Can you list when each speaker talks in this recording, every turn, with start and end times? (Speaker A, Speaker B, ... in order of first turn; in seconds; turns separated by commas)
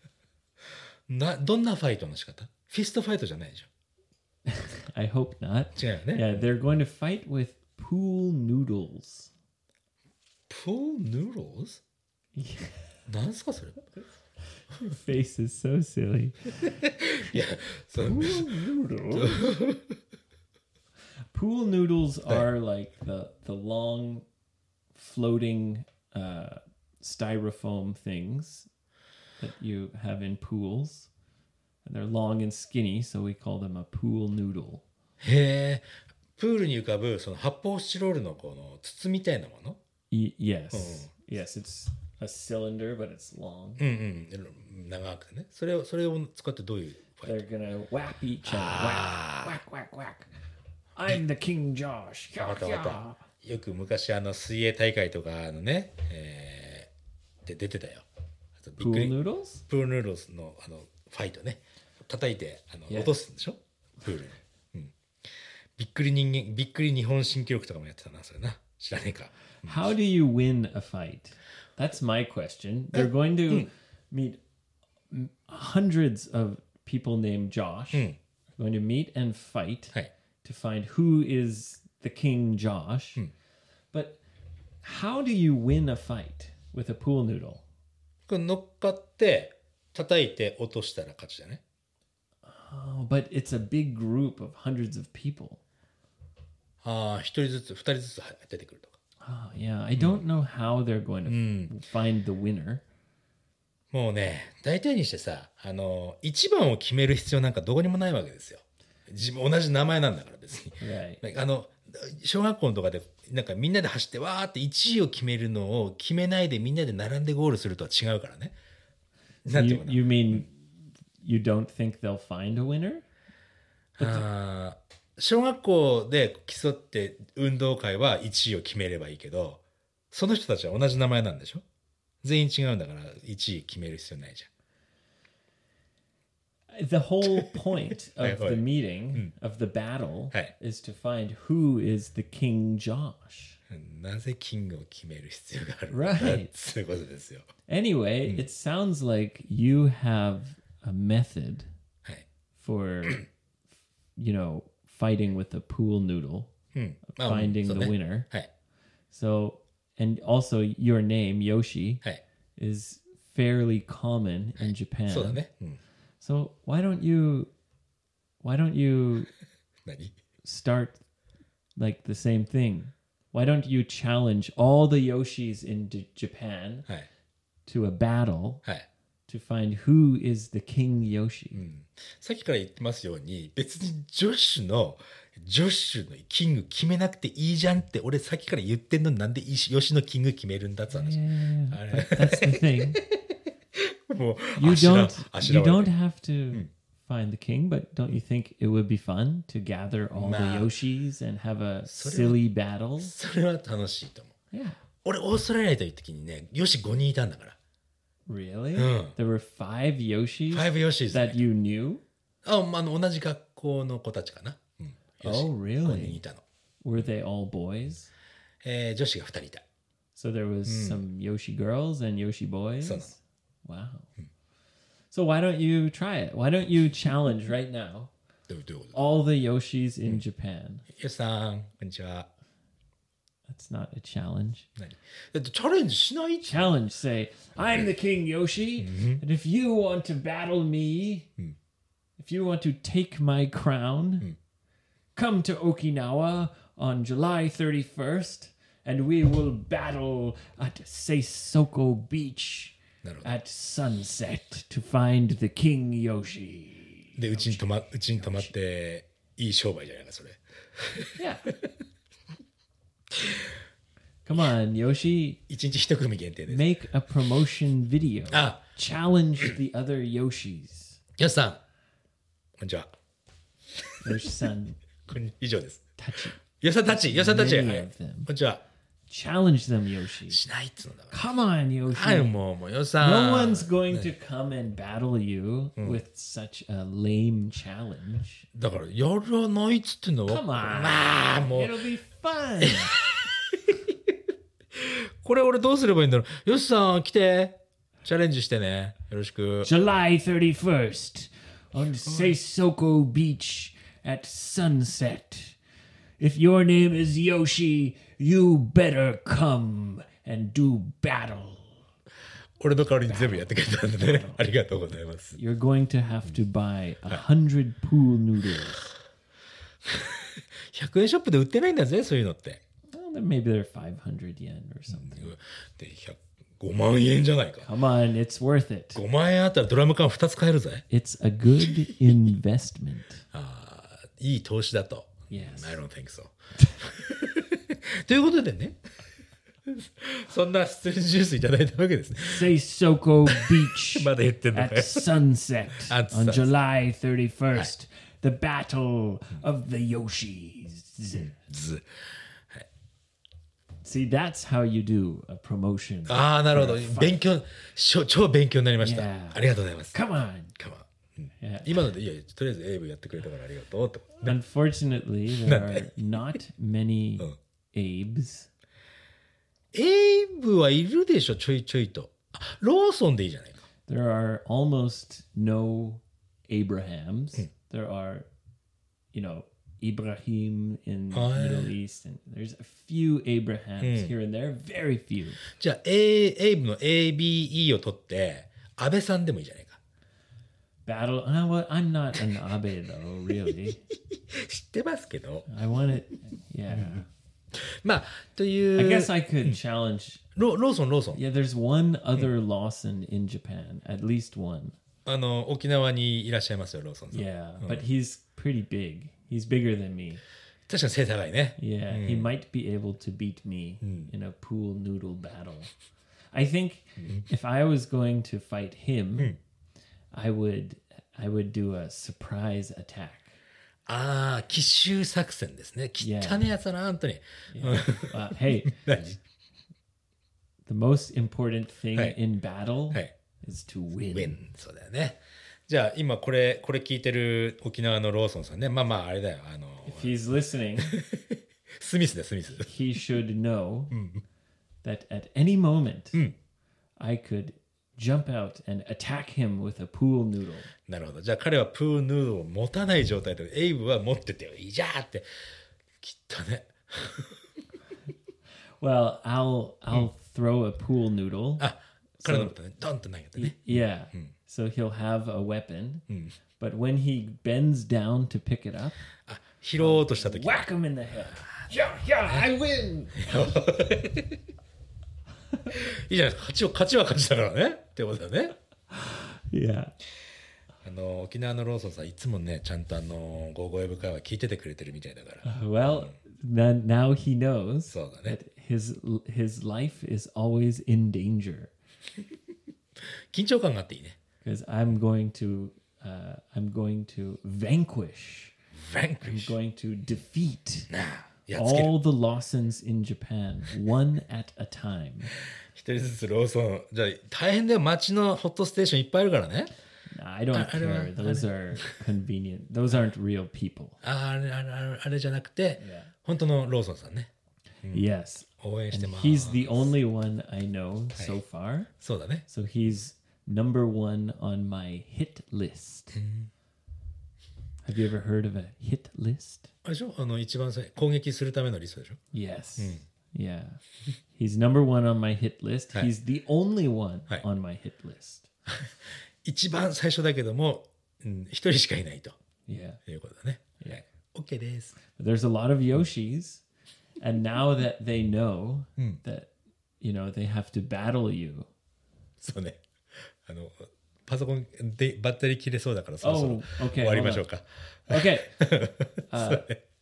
Speaker A: 1.1-3.7, Speaker B: 4.5-9.3, Speaker A: 5.8-6.4, Speaker A: 10.5-11.8, Speaker B: 12.3-12.8, Speaker A: 13.1-13.8, Speaker B: 14.6-16.7, Speaker A: 16.6-18.6, Speaker B: 18.0-19.6, Speaker A: 19.1-20.0, Speaker B: 21.3-24.3, Speaker B: 24.9-28.7, Speaker B: 29.4-31.1, Speaker B: 31.9-34.8, Speaker A: 35.2-39.8, Speaker B: 40.1-43.9, Speaker A: 40.7-41.1, Speaker A: 43.8-47.4, Speaker B: 47.2-50.3, Speaker A: 48.5-49.6, Speaker B: 51.0-53.2, Speaker A: 52.4-56.9, Speaker A: 57.5-58.1, Speaker A: 58.6-59.1, Speaker B: 58.8-59.6, Speaker A: 59.7-64.9, Speaker B: 62.9-63.2, Speaker A: 65.8-69.8, Speaker B: 69.6-74.4, Speaker A: 72.9-73.7, Speaker B: 75.1-83.2, Speaker A: 77.9-78.2, Speaker B: 83.9-84.2, Speaker B: 84.8-87.6, Speaker A: 88.3-91.6, Speaker B: 92.4-95.6, Speaker A: 96.8-99.0, Speaker B: 99.2-102.8, Speaker A: 100.0-100.2, Speaker A: 101.3-101.7, Speaker A: 103.9-118.5, Speaker B: 110.8-111.2, Speaker A: 119.5-120.4, Speaker B: 119.5-123.0, Speaker A: 124.0-131.6, Speaker B: 124.0-124.3, Speaker A: 132.2-134.5, Speaker B: 136.7-143.6, Speaker A: 137.2-137.5, Speaker A: 138.2-139.3, Speaker A: 143.7-147.5, Speaker B: 145.9-146.5, Speaker B: 147.7-151.7, Speaker B: 152.6-153.2, Speaker B: 154.2-156.5, Speaker A: 156.7-158.5, Speaker B: 157.1-158.3, Speaker B: 159.1-162.0, Speaker B: 162.6-165.4, Speaker A: 164.6-165.8, Speaker B: 166.2-167.5, Speaker B: 168.4-169.3, Speaker A: 169.8-170.2, Speaker B: 170.4-171.0, Speaker B: 171.8-176.9, Speaker B: 177.7-178.6, Speaker B: 179.3-181.7, Speaker A: 181.5-193.2, Speaker B: 190.9-193.0, Speaker A: 193.7-195.9, Speaker B: 194.6-203.1, Speaker A: 200.2-200.7, Speaker A: 201.9-202.4, Speaker A: 203.0-204.3, Speaker B: 204.5-204.8, Speaker A: 205.0-207.6, Speaker B: 208.3-212.0, Speaker A: 208.8-209.1, Speaker A: 210.5-211.4, Speaker A: 212.4-216.4, Speaker B: 215.2-216.2, Speaker B: 216.8-218.1, Speaker A: 218.6-219.6, Speaker B: 220.2-224.1, Speaker A: 220.7-221.0, Speaker A: 222.8-223.1, Speaker B: 225.1-228.1, Speaker A: 228.5-229.0, Speaker B: 228.9-230.9, Speaker A: 230.9-232.3, Speaker B: 233.5-234.7, Speaker A: 234.8-236.7, Speaker B: 236.4-241.3, Speaker A: 238.8-239.2, Speaker B: 242.2-244.3, Speaker B: 245.2-258.5, Speaker A: 253.0-253.3, Speaker A: 257.2-261.8, Speaker B: 261.2-261.5, Speaker A: 263.1-263.5, Speaker B: 264.2-265.4, Speaker A: 265.5-266.7, Speaker B: 266.5-271.0, Speaker A: 268.3-268.6, Speaker A: 271.2-271.6, Speaker A: 272.6-272.9, Speaker A: 273.8-274.3, Speaker B: 274.0-274.8, Speaker A: 275.1-275.8, Speaker B: 276.0-276.4, Speaker A: 276.4-278.6, Speaker B: 277.0-278.3, Speaker B: 279.1-280.4, Speaker A: 280.3-281.2, Speaker B: 281.1-282.3, Speaker A: 281.9-284.1, Speaker B: 283.0-288.5, Speaker A: 285.8-286.0, Speaker A: 288.5-291.8, Speaker B: 290.3-293.0, Speaker A: 292.6-294.1, Speaker A: 294.7-299.7, Speaker B: 299.6-305.6, Speaker A: 302.0-302.4, Speaker B: 306.2-311.8, Speaker A: 312.6-315.4, Speaker B: 313.1-314.4, Speaker B: 315.3-318.9, Speaker A: 319.8-322.6, Speaker B: 322.9-325.3, Speaker A: 324.9-327.7, Speaker B: 327.6-329.0, Speaker A: 328.9-330.8, Speaker B: 330.9-333.2, Speaker A: 333.3-338.8, Speaker B: 335.3-335.8, Speaker A: 339.6-342.5, Speaker B: 342.2-351.4, Speaker A: 343.3-345.1, Speaker A: 345.8-346.5, Speaker A: 351.2-352.7, Speaker B: 353.8-357.1, Speaker A: 356.1-360.0, Speaker B: 358.8-360.6, Speaker A: 360.6-364.3, Speaker B: 361.4-361.8, Speaker B: 364.2-368.5, Speaker A: 365.4-365.9, Speaker A: 369.7-373.6, Speaker B: 373.9-378.3, Speaker B: 379.1-385.4, Speaker A: 381.1-381.7, Speaker A: 383.8-384.1, Speaker A: 385.5-389.8, Speaker B: 390.9-393.8, Speaker A: 394.1-395.5, Speaker B: 395.5-397.1, Speaker A: 397.5-399.6, Speaker B: 398.8-400.2, Speaker A: 400.4-401.2, Speaker B: 401.1-404.8, Speaker A: 405.1-407.9, Speaker B: 407.1-410.2, Speaker A: 410.7-412.3, Speaker B: 411.6-415.7, Speaker A: 413.8-414.1, Speaker B: 416.3-419.4, Speaker A: 417.0-417.2, Speaker B: 420.1-423.4, Speaker A: 423.9-429.2, Speaker B: 426.0-426.4, Speaker B: 427.5-428.9, Speaker B: 430.7-434.4, Speaker A: 434.1-440.2, Speaker B: 439.9-441.0, Speaker A: 440.8-442.7, Speaker B: 442.6-444.0, Speaker A: 443.9-444.2, Speaker B: 444.8-446.2, Speaker B: 447.0-450.7, Speaker A: 450.9-455.3, Speaker A: 456.0-457.6, Speaker B: 458.8-462.6, Speaker A: 461.6-464.3, Speaker B: 463.4-466.1, Speaker A: 466.1-466.3, Speaker B: 466.6-469.0, Speaker A: 469.3-470.7, Speaker B: 469.8-473.5, Speaker A: 473.2-474.4, Speaker A: 475.7-478.6, Speaker B: 478.9-479.9, Speaker A: 480.8-486.1, Speaker B: 485.4-491.7, Speaker A: 487.9-488.4, Speaker A: 493.0-494.2, Speaker B: 494.4-498.6, Speaker A: 498.7-499.6, Speaker B: 499.2-500.9, Speaker A: 500.9-501.9, Speaker B: 501.5-505.3, Speaker A: 505.7-509.7, Speaker B: 510.1-514.0, Speaker A: 510.5-511.9, Speaker A: 514.0-517.3, Speaker B: 515.8-516.1, Speaker B: 517.9-521.9, Speaker A: 518.6-519.9, Speaker A: 522.0-522.5, Speaker B: 522.5-526.2, Speaker A: 526.1-526.5, Speaker B: 527.9-529.7, Speaker A: 529.8-532.2, Speaker B: 532.3-533.8, Speaker A: 532.8-533.0, Speaker B: 534.3-538.5, Speaker A: 538.7-542.4, Speaker B: 542.7-543.0, Speaker A: 543.1-545.0, Speaker B: 545.1-546.6, Speaker B: 547.2-549.5, Speaker B: 550.0-551.7, Speaker A: 552.4-559.8, Speaker B: 556.2-557.5, Speaker B: 558.1-558.6, Speaker B: 559.3-559.7